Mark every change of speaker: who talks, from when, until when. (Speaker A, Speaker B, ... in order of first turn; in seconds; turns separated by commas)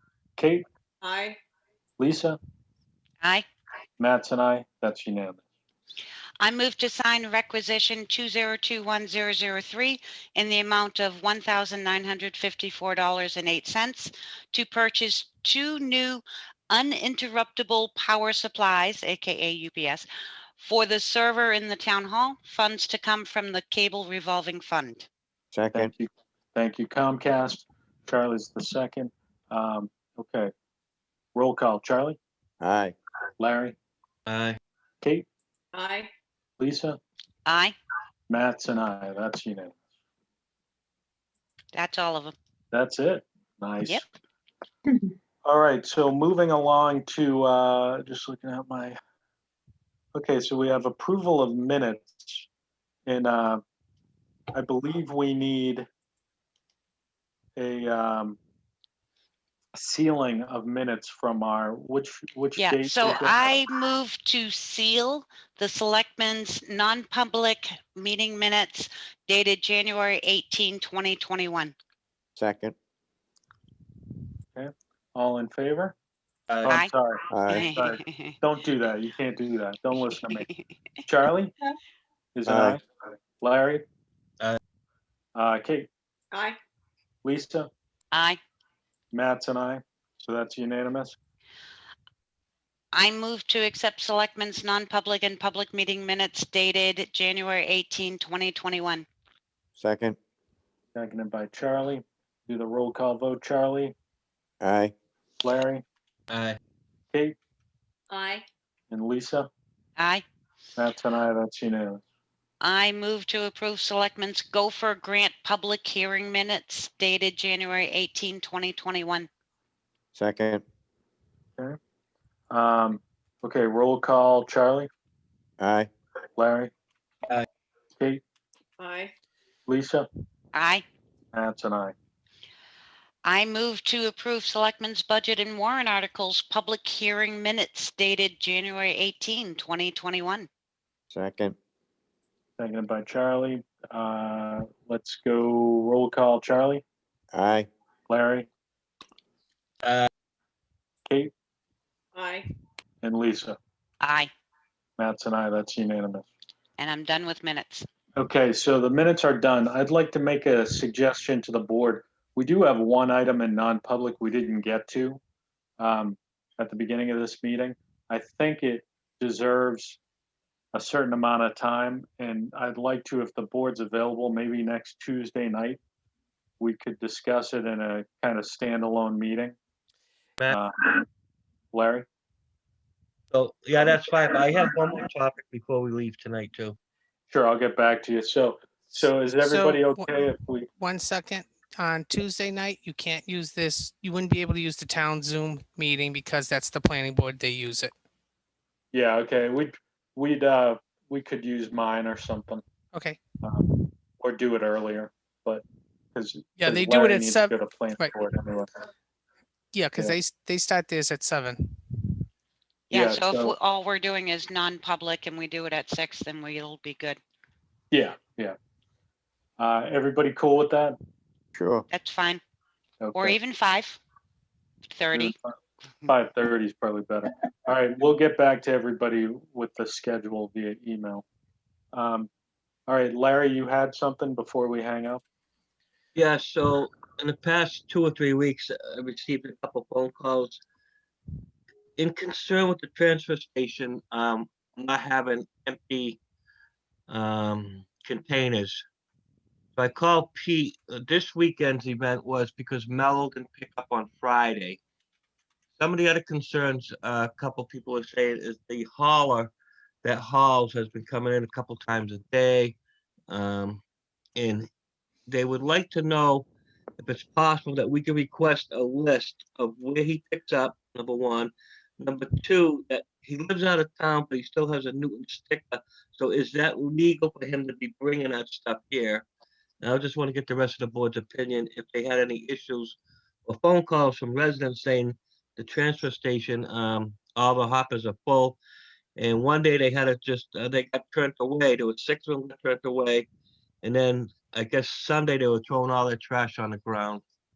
Speaker A: 0.4-0.6, Speaker B: 1.0-1.4, Speaker A: 2.0-2.4, Speaker A: 4.0-5.4, Speaker C: 6.4-20.1, Speaker C: 20.6-25.1, Speaker D: 25.5-25.9, Speaker A: 25.7-30.5, Speaker A: 31.3-32.2, Speaker D: 32.6-32.9, Speaker A: 33.4-33.8, Speaker E: 34.2-34.6, Speaker B: 35.7-36.1, Speaker A: 36.6-37.0, Speaker C: 37.5-37.8, Speaker A: 38.3-39.7, Speaker C: 41.7-42.3, Speaker A: 42.7-44.0, Speaker A: 45.4-49.0, Speaker A: 50.1-52.5, Speaker A: 53.0-53.6, Speaker A: 54.5-55.9, Speaker A: 57.5-58.4, Speaker A: 59.7-63.4, Speaker C: 62.5-71.7, Speaker D: 72.3-72.7, Speaker A: 74.5-76.0, Speaker E: 76.5-76.8, Speaker A: 76.6-80.5, Speaker D: 77.3-77.7, Speaker C: 77.5-78.3, Speaker A: 81.0-81.5, Speaker A: 82.3-82.8, Speaker D: 82.5-82.8, Speaker A: 83.4-83.8, Speaker A: 85.3-85.9, Speaker B: 86.3-86.6, Speaker A: 87.2-87.7, Speaker C: 88.1-88.4, Speaker A: 89.1-91.2, Speaker C: 92.9-99.0, Speaker D: 99.8-100.2, Speaker A: 100.9-103.9, Speaker D: 104.6-104.9, Speaker A: 105.4-105.8, Speaker E: 106.3-106.6, Speaker B: 108.1-108.4, Speaker A: 108.9-109.5, Speaker C: 110.0-110.2, Speaker A: 110.8-112.0, Speaker C: 112.6-119.3, Speaker D: 120.1-120.6, Speaker A: 122.5-124.9, Speaker D: 125.6-125.9, Speaker A: 126.3-126.7, Speaker B: 128.8-129.1, Speaker A: 129.7-130.1, Speaker C: 130.5-130.8, Speaker A: 131.3-131.9, Speaker C: 133.2-140.5, Speaker D: 141.1-141.6, Speaker A: 142.6-146.8, Speaker D: 147.3-147.7, Speaker A: 148.1-148.5, Speaker E: 149.8-150.1, Speaker B: 152.1-152.5, Speaker A: 153.0-153.6, Speaker C: 154.0-154.3, Speaker A: 155.0-156.2, Speaker C: 156.8-157.8, Speaker A: 158.2-165.2, Speaker A: 165.8-170.0, Speaker A: 170.7-175.8, Speaker A: 176.6-179.5, Speaker A: 180.5-181.0, Speaker A: 181.7-182.1, Speaker E: 183.3-186.8, Speaker A: 187.3-190.7, Speaker F: 189.4-190.2, Speaker F: 190.8-197.9, Speaker A: 198.9-202.6, Speaker F: 202.9-203.2, Speaker A: 203.4-205.6, Speaker A: 206.1-208.7, Speaker F: 206.6-208.2, Speaker F: 209.7-212.0, Speaker C: 212.9-217.2, Speaker A: 212.9-213.5, Speaker A: 217.9-218.5, Speaker A: 219.6-221.0, Speaker D: 221.5-221.8, Speaker C: 221.9-222.4, Speaker A: 223.0-223.4, Speaker C: 223.1-224.0, Speaker C: 224.9-225.3, Speaker A: 225.1-225.5, Speaker A: 226.1-231.2, Speaker A: 231.9-232.3, Speaker A: 232.9-235.2, Speaker E: 236.1-240.6, Speaker E: 241.9-246.2, Speaker E: 247.1-248.8, Speaker E: 249.8-254.8, Speaker E: 255.8-259.5, Speaker E: 260.0-262.8, Speaker E: 263.3-263.8, Speaker E: 264.3-264.7, Speaker E: 265.3-266.5, Speaker E: 267.0-279.2, Speaker E: 279.8-288.6, Speaker E: 289.1-293.3, Speaker E: 293.8-297.2